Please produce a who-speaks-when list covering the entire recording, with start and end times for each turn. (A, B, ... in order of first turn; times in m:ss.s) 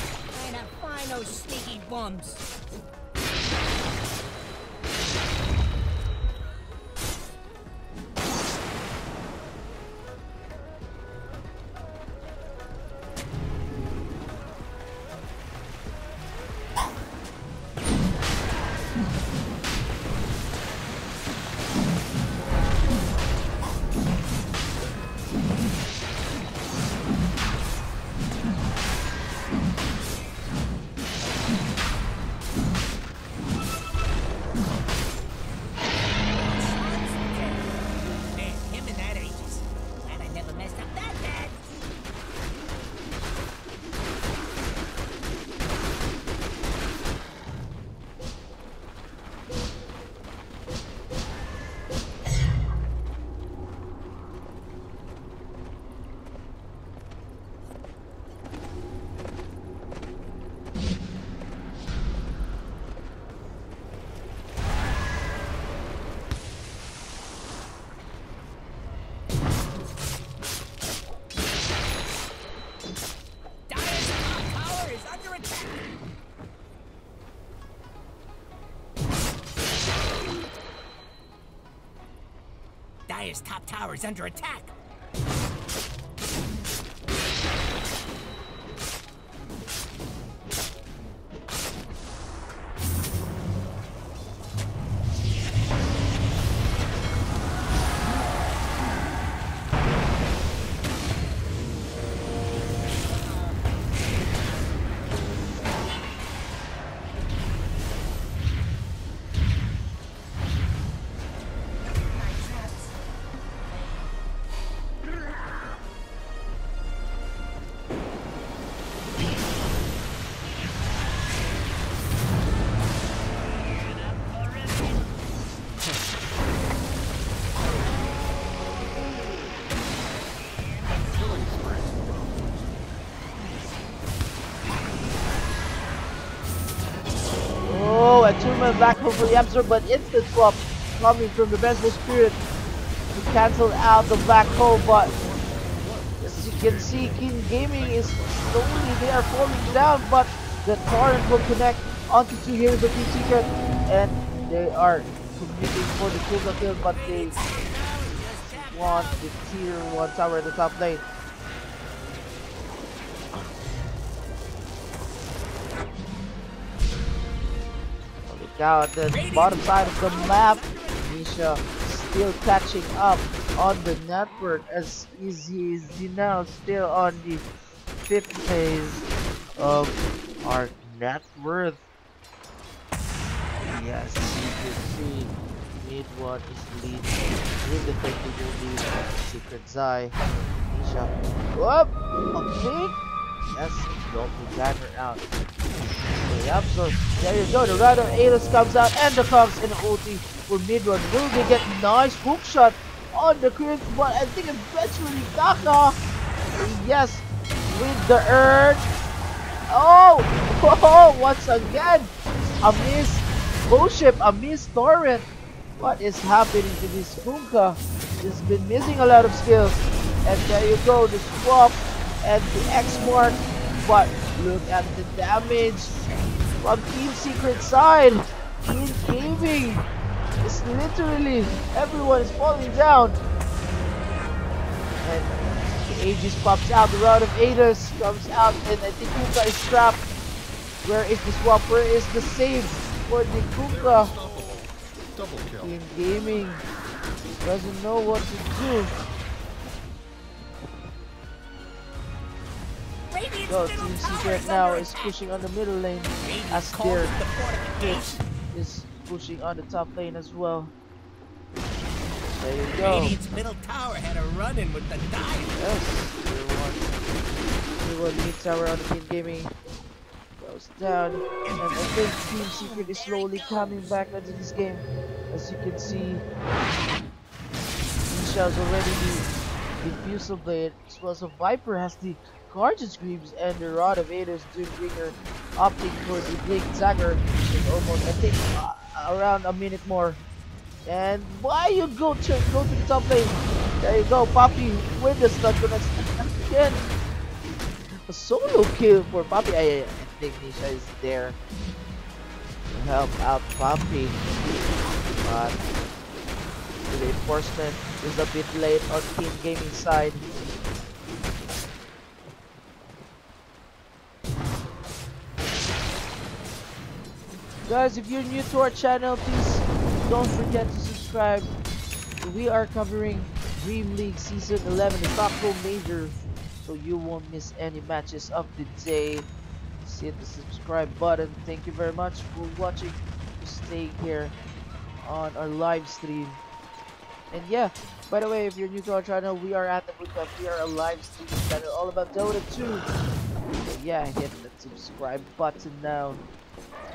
0:00.3-0:02.4 A
0:36.4-0:41.6 A
1:13.7-1:15.8 A
1:23.1-1:24.7 A
2:11.0-2:13.0 B
2:17.6-2:22.4 C
2:23.1-2:25.1 C
2:24.3-2:29.5 B
2:26.2-2:37.4 C
2:36.9-2:39.2 A
2:38.7-2:41.0 C
2:48.3-2:57.4 C
2:49.1-2:51.7 A
2:58.0-3:01.8 C
3:03.7-3:10.2 C
3:10.7-3:13.0 C
3:13.5-3:15.2 C
3:16.3-3:26.0 C
3:26.6-3:28.8 C
3:29.7-3:45.9 C
3:46.6-3:49.8 C
3:50.4-3:53.2 C
3:55.0-3:55.3 C
3:55.8-4:00.0 C
4:00.8-4:04.1 C
4:03.6-4:05.8 B
4:05.6-4:06.6 C
4:07.4-4:08.9 C
4:13.1-4:15.4 A
4:13.5-4:17.2 C
4:16.2-4:18.2 A
4:17.8-4:20.7 C
4:22.4-4:23.2 C
4:22.8-4:25.6 A
4:25.6-4:26.9 C
4:27.8-4:29.5 C
4:30.4-4:36.2 C
4:31.7-4:33.8 A
4:38.1-4:39.2 C
4:39.8-4:50.2 C
4:50.9-4:56.8 C
4:58.1-5:01.4 C
5:02.7-5:04.2 C
5:05.2-5:05.6 C
5:06.9-5:10.2 C
5:17.7-5:21.5 C
5:22.2-5:29.3 C
5:29.8-5:34.3 C
5:35.0-5:36.4 C
5:37.3-5:42.9 C
5:43.6-5:46.2 C